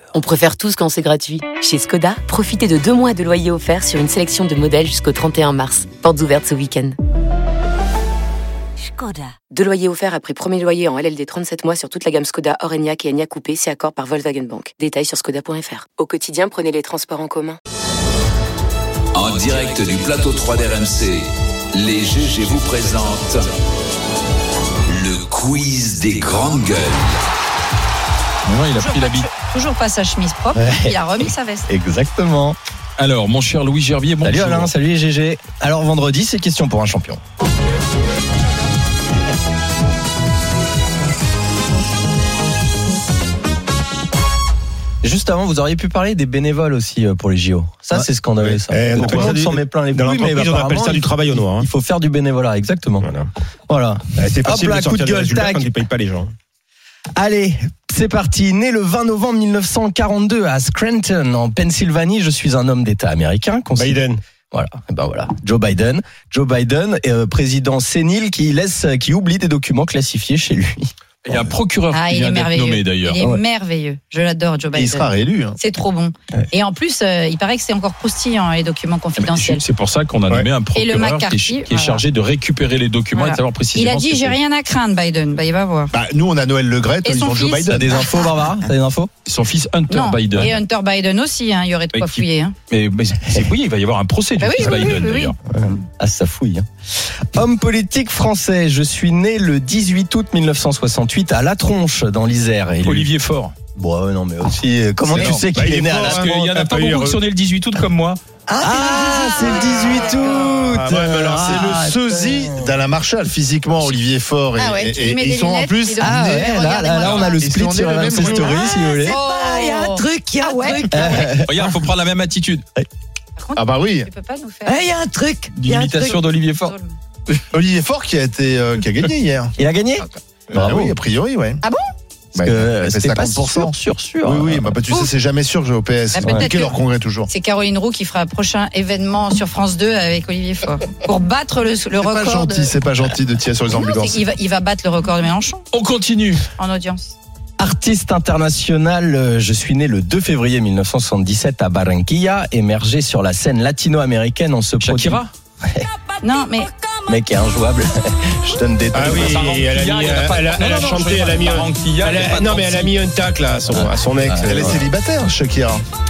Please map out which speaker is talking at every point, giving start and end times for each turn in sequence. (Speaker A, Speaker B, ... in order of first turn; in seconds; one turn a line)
Speaker A: 0.1-7.0
Speaker A: 9.4-17.6
Speaker B: 19.1-23.4
Speaker B: 24.9-27.1
Speaker C: 28.4-29.3
Speaker D: 28.8-31.7
Speaker E: 30.5-32.6
Speaker C: 33.0-34.7
Speaker E: 34.2-37.2
Speaker E: 45.0-53.1
Speaker F: 48.4-49.3
Speaker G: 48.7-51.7
Speaker G: 53.0-53.3
Speaker E: 53.7-55.7
Speaker G: 54.2-56.3
Speaker E: 57.1-64.0
Speaker G: 63.8-64.2
Speaker E: 64.5-70.9
Speaker C: 71.2-73.2
Speaker D: 71.9-79.6
Speaker F: 74.7-75.6
Speaker C: 79.2-84.4
Speaker D: 80.7-82.0
Speaker D: 83.1-85.9
Speaker F: 85.9-88.0
Speaker D: 87.0-88.3
Speaker E: 87.7-89.1
Speaker C: 89.2-90.6
Speaker D: 89.9-92.5
Speaker C: 91.9-95.3
Speaker D: 94.4-95.7
Speaker E: 95.5-96.7
Speaker E: 97.3-103.1
Speaker C: 102.8-103.5
Speaker E: 103.7-106.2
Speaker G: 105.2-107.2
Speaker F: 105.2-105.4
Speaker C: 106.0-108.2
Speaker H: 108.5-110.0
Speaker E: 108.6-112.7
Speaker D: 109.2-110.5
Speaker G: 110.4-111.7
Speaker F: 111.3-118.6
Speaker D: 114.6-117.5
Speaker E: 116.0-119.2
Speaker H: 118.4-121.4
Speaker D: 119.0-121.3
Speaker E: 120.9-121.7
Speaker C: 121.4-122.7
Speaker D: 123.3-124.9
Speaker F: 123.5-124.1
Speaker H: 124.7-126.2
Speaker C: 125.5-126.7
Speaker D: 126.6-127.0
Speaker F: 127.5-129.5
Speaker E: 129.6-130.9
Speaker F: 130.5-131.6
Speaker D: 131.6-131.9
Speaker E: 132.3-134.8
Speaker F: 132.3-137.3
Speaker D: 136.1-142.7
Speaker F: 141.9-144.2
Speaker D: 143.7-145.6
Speaker C: 145.7-146.4
Speaker D: 146.6-147.1
Speaker E: 147.6-155.9
Speaker C: 154.8-155.3
Speaker D: 156.2-156.7
Speaker E: 157.1-159.6
Speaker G: 158.9-164.8
Speaker C: 159.2-162.9
Speaker E: 163.7-164.8
Speaker F: 164.4-165.8